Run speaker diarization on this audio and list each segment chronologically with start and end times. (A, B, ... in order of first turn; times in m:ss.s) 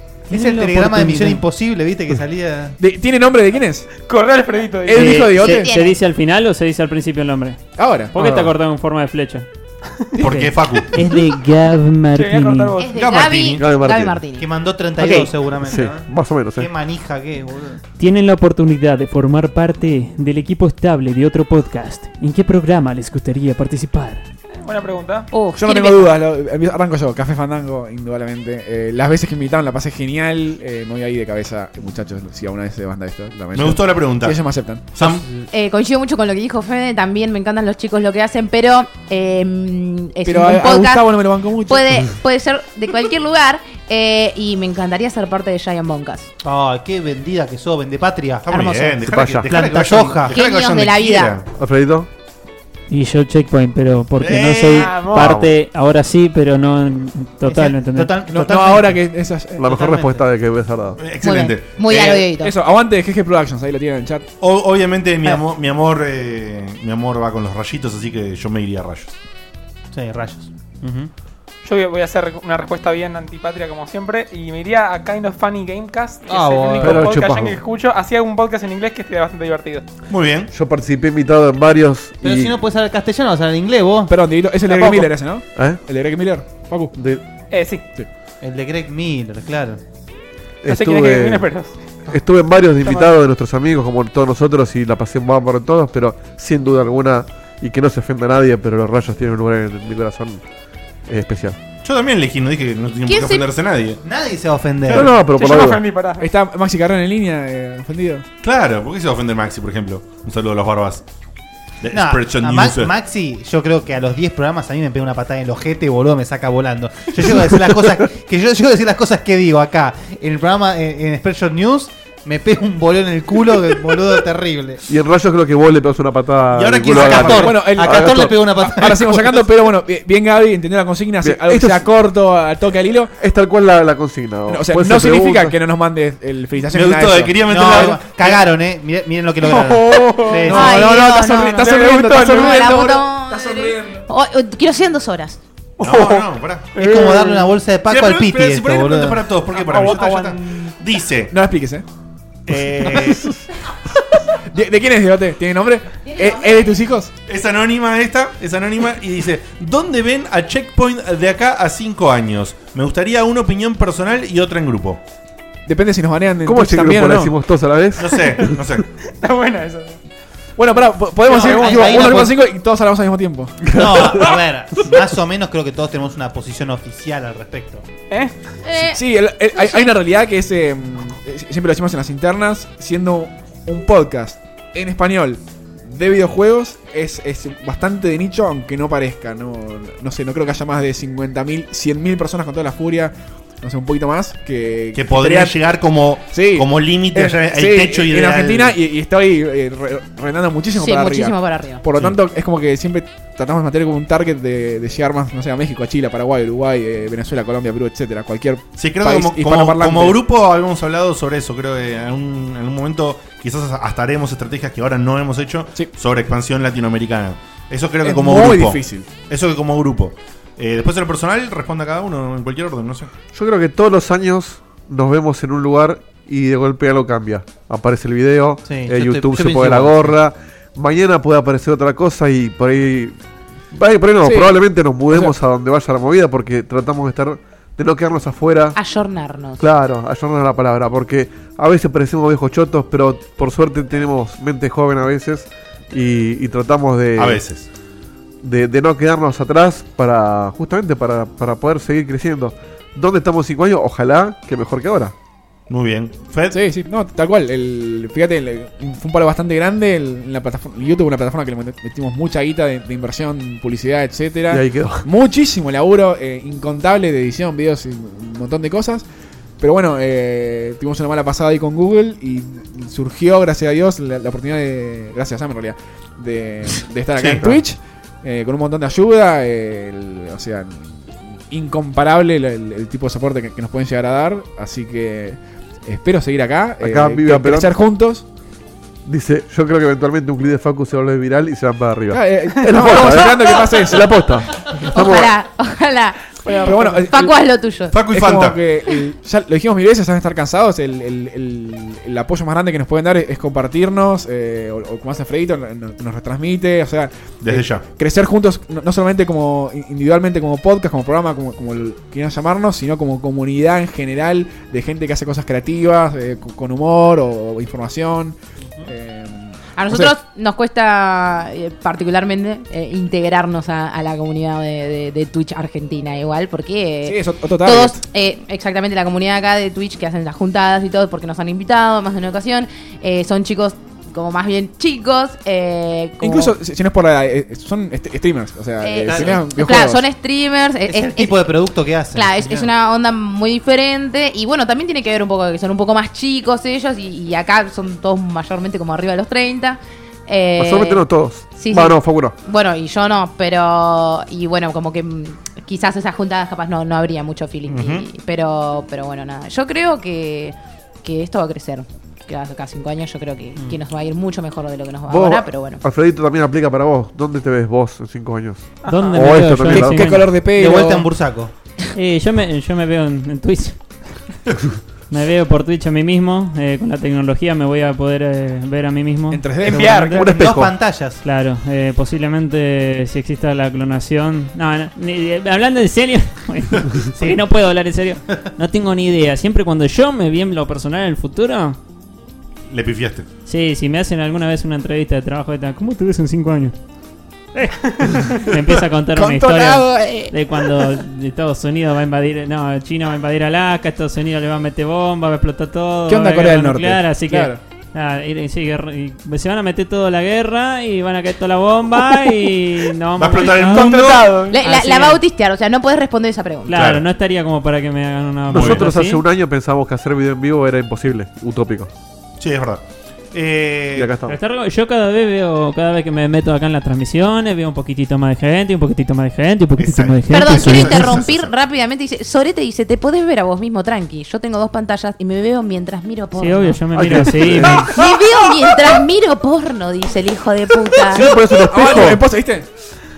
0:00.3-0:02.8 A
0:00.3-0:01.4 B
0:02.8-0:03.9 C
0:04.0-0:05.2 D
0:04.8-0:05.7 C
0:04.9-0:07.6 B
0:05.4-0:05.9 E
0:07.8-0:08.2 C
0:08.1-0:09.5 B
0:08.2-0:08.5 F
0:10.2-0:11.0 G
0:10.2-0:12.8 B
0:12.1-0:12.9 D
0:12.8-0:14.5 E
0:13.0-0:13.6 G
0:13.6-0:14.2 F
0:14.4-0:17.8 A
0:15.6-0:16.7 F
0:18.0-0:24.2 B
0:24.5-0:25.3 D
0:25.3-0:26.1 E
0:25.6-0:34.9 C
0:33.5-0:35.2 G
0:35.5-0:41.1 E
0:40.2-0:42.0 C
0:41.7-0:46.3 E
0:46.4-0:50.3 A
0:48.4-0:51.5 G
0:49.0-0:49.5 F
0:50.3-0:51.4 E
0:51.6-0:52.1 F
0:52.9-0:58.1 B
0:54.2-0:55.3 G
0:54.7-0:55.3 D
0:57.4-0:59.0 A
0:58.3-0:59.8 C
0:59.6-1:01.0 F
0:59.6-1:00.2 A
1:01.0-1:02.3 G
1:01.2-1:02.5 E
1:02.4-1:04.3 C
1:04.4-1:09.1 G
1:09.9-1:11.1 A
1:11.6-1:19.8 D
1:16.3-1:17.1 A
1:16.8-1:17.6 F
1:20.1-1:20.5 G
1:20.5-1:22.5 F
1:22.2-1:24.1 A
1:24.1-1:26.9 C
1:24.7-1:25.1 D
1:25.5-1:25.8 F
1:26.9-1:27.2 F
1:27.5-1:27.8 D
1:28.4-1:29.8 A
1:30.6-1:31.5 F
1:30.6-1:31.7 D
1:32.1-1:40.4 F
1:41.1-1:41.6 F
1:41.8-1:44.0 G
1:43.0-1:43.4 E
1:44.0-1:45.1 A
1:44.9-1:45.8 F
1:45.1-1:46.3 D
1:46.2-1:48.2 C
1:48.4-1:51.0 G
1:51.8-1:52.9 G
1:51.9-2:04.8 A
2:04.9-2:08.4 F
2:06.5-2:07.6 G
2:06.9-2:09.4 A
2:07.3-2:13.1 C
2:11.2-2:11.9 F
2:13.2-2:15.6 F
2:14.5-2:17.5 C
2:16.7-2:18.4 G
2:17.4-2:20.8 A
2:19.4-2:20.7 D
2:20.4-2:24.0 C
2:20.5-2:25.4 E
2:21.5-2:23.0 D
2:25.8-2:27.0 G
2:26.7-2:29.3 A
2:26.8-2:27.5 D
2:27.8-2:31.3 G
2:29.5-2:30.7 D
2:31.3-2:31.8 C
2:32.4-2:33.2 G
2:34.5-2:37.1 C
2:36.0-2:36.7 E
2:37.3-2:45.0 G
2:45.6-2:47.3 C
2:46.4-2:48.2 F
2:48.0-2:48.8 G
2:49.2-2:50.0 D
2:50.6-2:53.7 C
2:51.2-2:52.4 A
2:51.4-2:52.0 D
2:53.7-2:54.2 F
2:53.7-2:57.8 A
2:58.1-2:58.3 D
2:58.6-2:59.9 E
2:58.9-3:15.6 C
3:14.9-3:18.8 G
3:16.3-3:30.2 C
3:20.7-3:21.8 E
3:28.8-3:43.1 G
3:38.0-3:39.1 C
3:43.3-3:53.1 F
3:48.6-3:50.2 A
3:53.7-3:58.8 F
3:54.2-3:55.4 C
3:58.7-3:59.6 E
3:59.6-4:07.4 F
4:07.2-4:07.7 G
4:08.4-4:15.1 F
4:15.7-4:16.6 G
4:16.5-4:29.0 C
4:24.5-4:25.0 F
4:29.6-4:48.2 C
4:37.2-4:37.5 G
4:46.8-4:47.7 F
4:49.0-4:55.3 F
4:52.1-4:54.1 C
4:54.8-4:57.9 E
4:56.4-4:56.9 D
4:56.6-4:57.3 C
4:57.9-4:58.6 G
4:58.1-5:20.1 C
5:07.4-5:07.8 G
5:19.8-5:36.5 E
5:27.0-5:28.0 C
5:36.2-5:40.0 C
5:38.8-5:41.4 E
5:39.1-5:39.4 A
5:40.9-5:42.7 A
5:42.1-6:05.8 E
5:50.6-5:52.3 F
5:57.7-5:58.1 G
6:05.1-6:10.3 F
6:08.8-6:09.4 D
6:08.8-6:10.3 B
6:09.6-6:11.1 C
6:10.5-6:11.5 A
6:11.9-6:13.8 B
6:15.1-6:20.0 B
6:19.3-6:20.2 C
6:19.6-6:20.2 D
6:19.6-6:21.2 A
6:20.2-6:20.7 F
6:21.2-6:31.8 B
6:27.2-6:27.4 A
6:32.7-6:33.2 G
6:33.4-6:36.7 B
6:37.5-6:55.2 B
6:39.1-6:40.3 C
6:46.1-6:47.6 C
6:53.2-6:54.3 G
6:53.6-6:55.0 D
6:54.5-6:56.8 E
6:56.7-6:59.2 B
6:56.7-6:57.0 G
6:58.5-7:01.9 F
6:58.5-6:58.9 G
7:02.4-7:04.1 G
7:04.0-7:04.4 F
7:04.3-7:11.2 B
7:09.8-7:11.5 G
7:10.3-7:16.8 E
7:16.4-7:17.9 B
7:16.9-7:17.9 F
7:17.0-7:17.6 G
7:17.8-7:21.3 E
7:21.1-7:22.2 F
7:21.2-7:22.7 C